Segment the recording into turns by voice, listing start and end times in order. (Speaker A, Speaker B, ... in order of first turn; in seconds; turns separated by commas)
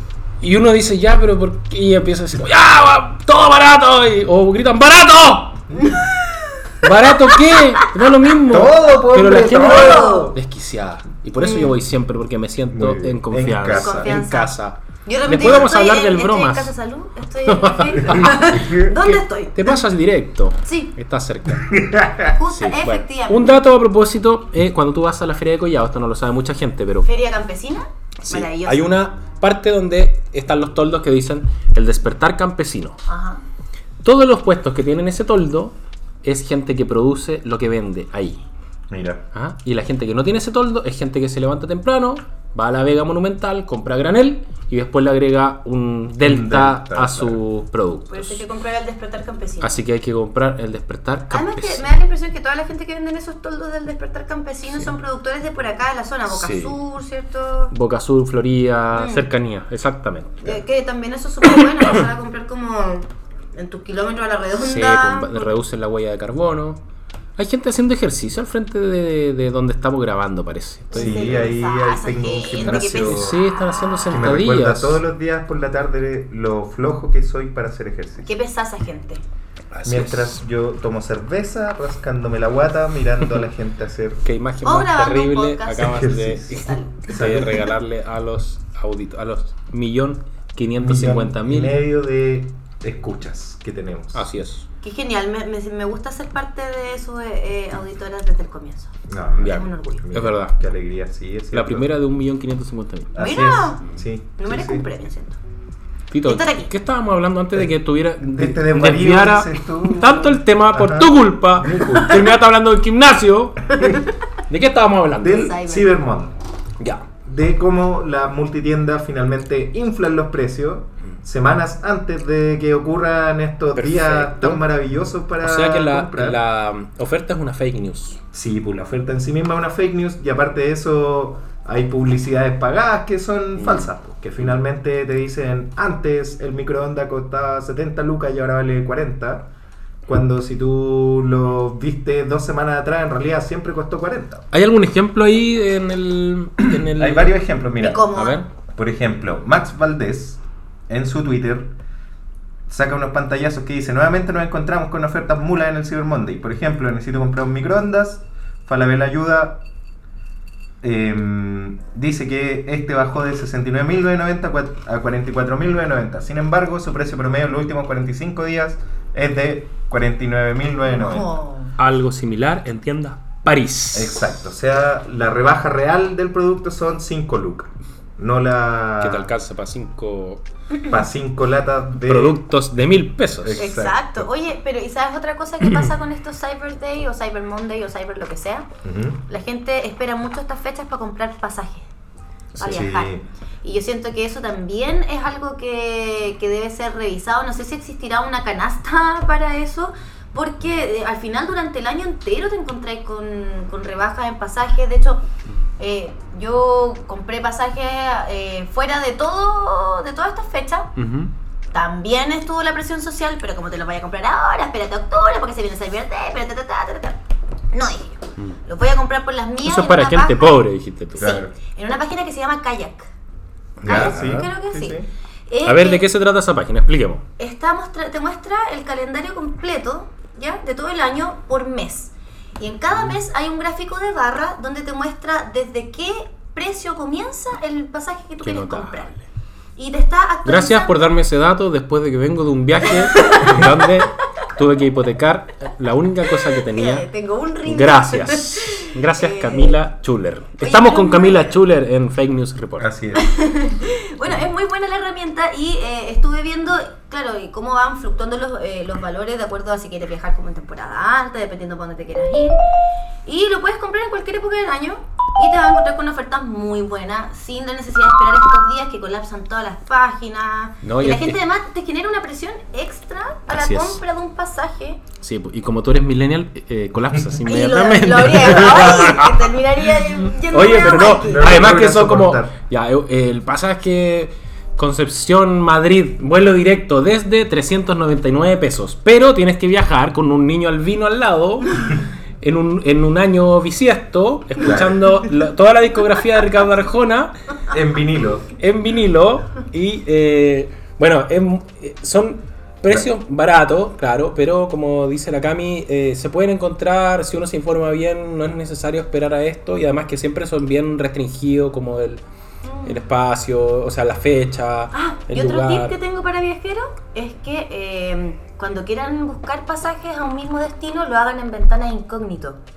Speaker A: 0.4-5.7, Speaker B: 5.7-6.8, Speaker A: 6.8-16.7, Speaker B: 7.5-7.9, Speaker C: 8.5-10.4, Speaker B: 9.3-10.3, Speaker B: 11.4-11.7, Speaker C: 12.7-14.2, Speaker B: 13.8-14.5, Speaker B: 15.1-19.8, Speaker A: 17.5-27.1, Speaker C: 18.6-18.9, Speaker B: 20.6-20.9, Speaker C: 21.7-22.3, Speaker B: 22.3-23.6, Speaker B: 27.0-29.0, Speaker A: 28.2-33.0, Speaker B: 33.1-33.4, Speaker A: 34.0-38.4, Speaker C: 38.9-39.2, Speaker A: 39.3-48.4, Speaker C: 46.2-47.4, Speaker B: 48.1-49.8, Speaker A: 49.6-51.9, Speaker B: 51.3-57.7, Speaker A: 56.3-56.8, Speaker A: 57.7-60.4, Speaker B: 58.9-59.3, Speaker B: 60.4-65.5, Speaker A: 64.6-66.8, Speaker A: 67.4-71.4, Speaker B: 70.9-74.0, Speaker C: 70.9-73.4, Speaker A: 72.6-75.0, Speaker C: 74.1-78.3, Speaker B: 78.3-79.2, Speaker A: 79.7-80.4, Speaker C: 79.8-84.2, Speaker A: 84.2-91.8, Speaker B: 84.6-87.1, Speaker C: 85.8-86.5, Speaker C: 87.1-87.7, Speaker C: 90.8-94.2, Speaker A: 94.1-94.7, Speaker B: 94.8-98.9, Speaker C: 99.1-101.9, Speaker A: 99.4-100.5, Speaker B: 99.4-100.1, Speaker A: 101.5-103.1, Speaker C: 103.1-104.9, Speaker B: 103.2-103.8, Speaker B: 104.4-105.4, Speaker A: 106.1-115.5, Speaker B: 106.2-106.7, Speaker C: 108.2-112.3, Speaker B: 113.8-114.1, Speaker C: 115.2-116.3, Speaker B: 115.3-116.0, Speaker A: 116.8-117.0, Speaker C: 117.2-126.4, Speaker A: 123.8-124.6, Speaker A: 125.4-128.2, Speaker C: 128.3-139.5, Speaker A: 133.6-133.9, Speaker C: 140.1-144.4, Speaker A: 144.5-147.4, Speaker C: 146.9-148.1, Speaker B: 147.8-148.4, Speaker A: 148.1-148.5, Speaker C: 148.7-151.7, Speaker C: 152.7-159.6, Speaker C: 160.8-171.3, Speaker B: 170.9-171.8, Speaker A: 171.8-174.3, Speaker C: 173.9-179.3, Speaker A: 179.0-180.4, Speaker C: 180.9-182.4, Speaker A: 182.0-183.7, Speaker C: 183.4-184.3, Speaker B: 183.6-188.7, Speaker C: 188.8-189.2, Speaker B: 189.3-191.9, Speaker A: 192.6-192.9, Speaker B: 192.6-205.2, Speaker C: 192.6-193.3, Speaker B: 205.8-210.9, Speaker A: 211.0-211.3, Speaker B: 211.7-217.2, Speaker B: 217.7-220.6, Speaker A: 219.7-221.3, Speaker B: 221.2-223.1, Speaker C: 221.2-221.5, Speaker A: 223.8-224.5, Speaker C: 223.8-225.1, Speaker B: 223.8-226.1, Speaker A: 225.7-227.2, Speaker B: 227.4-239.1, Speaker A: 238.4-239.2, Speaker B: 239.8-241.0, Speaker A: 240.4-247.1, Speaker B: 243.0-243.7, Speaker B: 246.6-249.8, Speaker A: 247.7-252.9, Speaker B: 250.6-251.6, Speaker C: 252.8-253.3, Speaker B: 253.2-262.6, Speaker B: 263.2-275.0, Speaker A: 270.8-271.4, Speaker A: 273.5-274.0, Speaker A: 275.2-279.5, Speaker B: 277.4-281.7, Speaker A: 280.4-297.3, Speaker C: 281.2-282.6, Speaker C: 294.6-295.1, Speaker C: 297.7-298.5, Speaker A: 298.6-312.2, Speaker B: 312.6-313.1, Speaker A: 312.8-316.0, Speaker B: 314.9-322.6